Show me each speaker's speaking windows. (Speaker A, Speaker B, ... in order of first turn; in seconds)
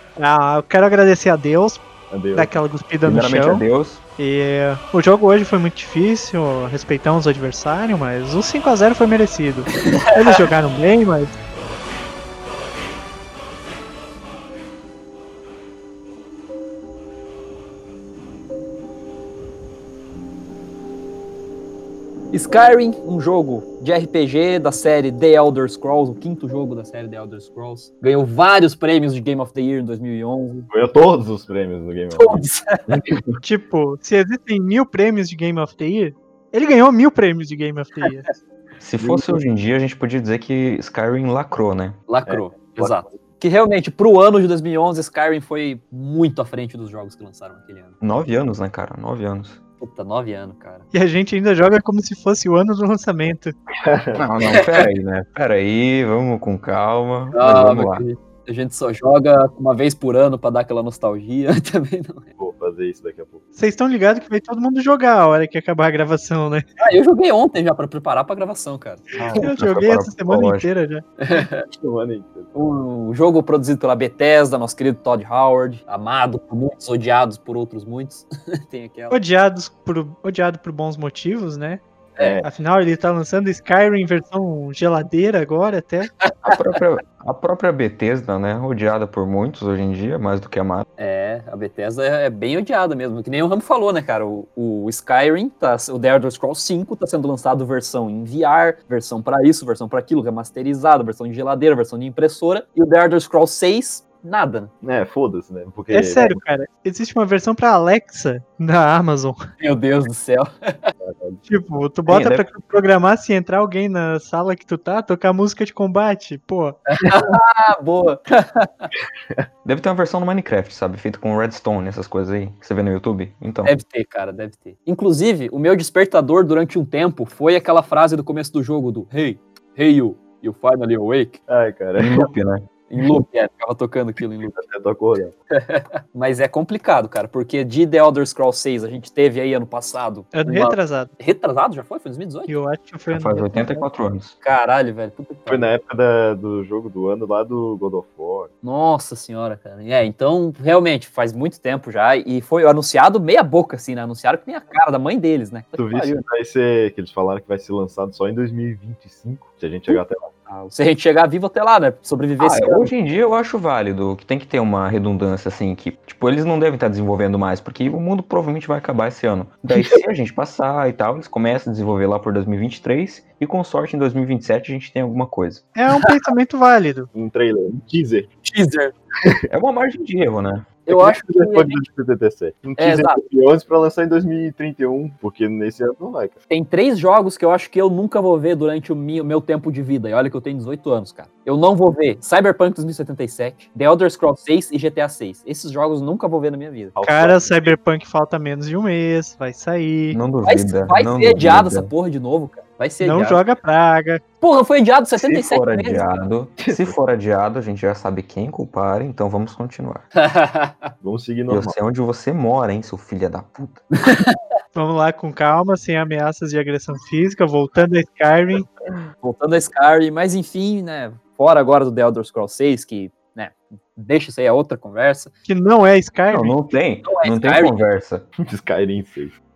Speaker A: 0.2-1.8, 2.3-3.6, 4.2-11.3, 33.4-38.3, 50.9-53.5, 63.5-66.6, 69.3-71.0, 79.1-81.8, 82.4-86.1, 105.9-109.4, 111.5-116.8, 140.3-141.1, 142.5-143.9, 175.7-177.1, 197.0-200.2, 203.0-204.2, 214.7-218.7, 225.4-226.6
Speaker B: 2.1-2.5, 30.7-33.4, 39.0-39.4, 42.3-43.1, 53.8-54.2, 62.4-63.4, 69.2-69.5, 71.7-72.5, 82.2-82.5, 104.8-106.4, 111.0-111.4, 131.5-132.3, 134.4-135.3, 145.5-148.5, 155.8-160.3, 177.1-178.3, 180.9-186.3, 196.9-197.8, 206.6-206.9, 211.0-211.8, 228.4-229.3
Speaker C: 3.0-4.0, 38.8-42.0, 48.0-49.6, 54.1-58.0, 69.4-70.7, 86.4-90.8, 112.1-112.5, 119.6-123.8, 132.0-132.6, 143.1-144.3, 162.4-175.6, 179.5-180.7, 200.1-201.9, 205.2-210.1, 211.5-213.8, 226.3-228.2
Speaker D: 22.3-30.7, 32.1-32.8, 42.1-48.0, 49.8-50.9, 57.3-62.3, 66.8-69.0, 71.2-71.6, 72.5-79.2, 91.0-104.7, 109.6-110.9, 116.9-118.9, 123.6-131.4, 132.9-134.5, 135.5-142.5, 144.4-145.7, 148.6-156.2, 160.5-162.9, 178.4-178.9, 180.8-181.8, 182.8-183.2, 186.5-196.9, 200.4-203.4, 204.4-206.1, 210.2-210.9, 214.0-214.3, 219.2-225.3, 227.0-227.8